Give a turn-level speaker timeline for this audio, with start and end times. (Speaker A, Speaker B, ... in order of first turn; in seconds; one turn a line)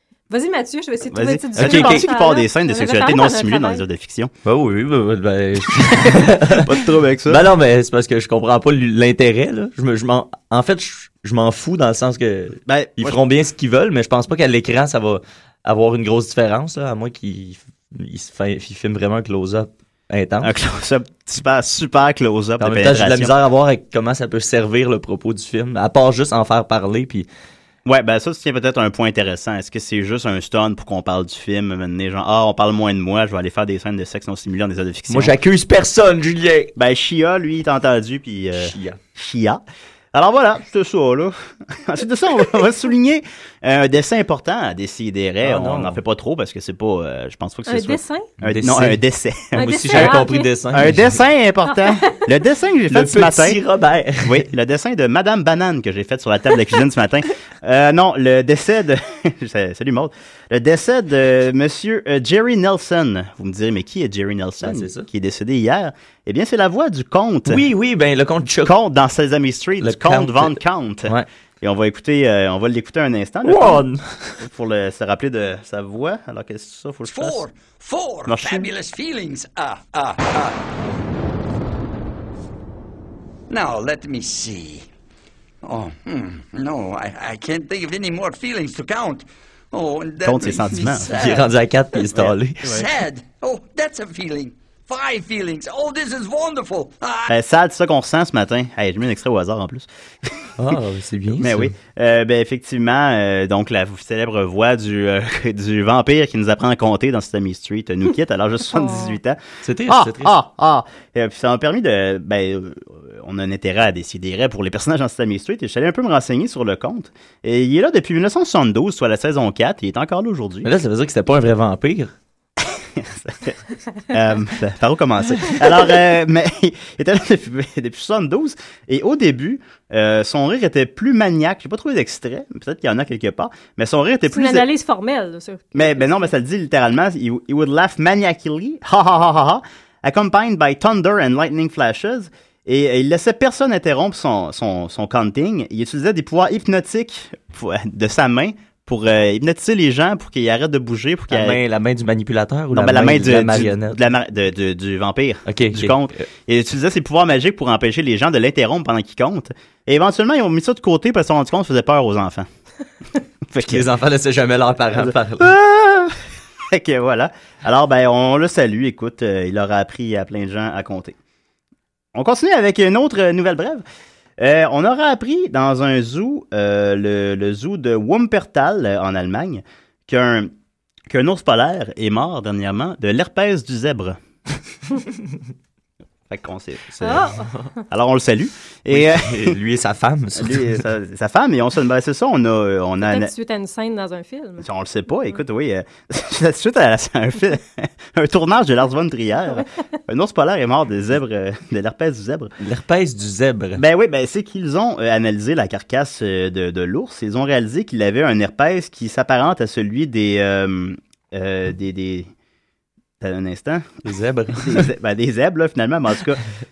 Speaker A: 0.3-3.8
Speaker B: 1.1-4.3
Speaker C: 1.6-2.1
Speaker C: 4.4-20.5
Speaker B: 6.1-7.4
Speaker B: 12.7-13.2
Speaker B: 20.4-23.3
Speaker C: 22.6-27.3
Speaker B: 27.9-35.3
Speaker C: 35.1-36.7
Speaker B: 36.8-39.6
Speaker C: 38.5-39.0
Speaker B: 40.1-53.6
Speaker C: 45.4-46.0
Speaker A: 47.7-48.3
Speaker C: 48.4-49.0
Speaker A: 49.5-50.5
Speaker C: 49.5-51.2
Speaker A: 51.6-52.3
Speaker C: 52.9-54.5
Speaker B: 54.2-67.6
Speaker C: 64.6-65.1
Speaker C: 67.5-68.7
Speaker B: 68.6-73.8
Speaker C: 69.8-71.3
Speaker C: 73.4-74.4
Speaker B: 74.4-77.4
Speaker D: 77.1-80.6
Speaker B: 78.3-78.7
Speaker D: 83.5-84.9
Speaker D: 85.6-91.5
Speaker B: 90.2-91.2
Speaker C: 91.1-92.8
Speaker B: 92.1-92.8
Speaker D: 92.6-97.3
Speaker B: 97.3-99.9
Speaker C: 100.6-101.7
Speaker B: 101.3-120.7
Speaker A: 108.7-109.2
Speaker C: 109.6-110.3
Speaker C: 120.6-122.1
Speaker B: 123.0-123.6
Speaker B: 124.1-134.7
Speaker A: 134.3-136.3
Speaker B: 135.7-151.6
Speaker C: 151.3-154.0
Speaker B: 152.7-162.5
Speaker C: 155.5-156.2
Speaker B: 163.5-163.8
Speaker C: 163.7-165.5
Speaker B: 164.9-166.1
Speaker B: 166.7-171.2
Speaker B: 172.1-173.8
Speaker B: 174.4-180.5
Speaker B: 181.1-184.2
Speaker B: 186.3-187.3
Speaker C: 187.0-187.3
Speaker A: 187.0-187.5
Speaker B: 187.9-189.6
Speaker C: 188.9-190.8
Speaker B: 190.4-193.3
Speaker A: 193.0-194.7
Speaker B: 194.6-202.5
Speaker C: 202.6-203.8
Speaker B: 203.8-212.3
Speaker B: 213.2-214.0
Speaker C: 214.0-214.9
Speaker B: 214.6-216.4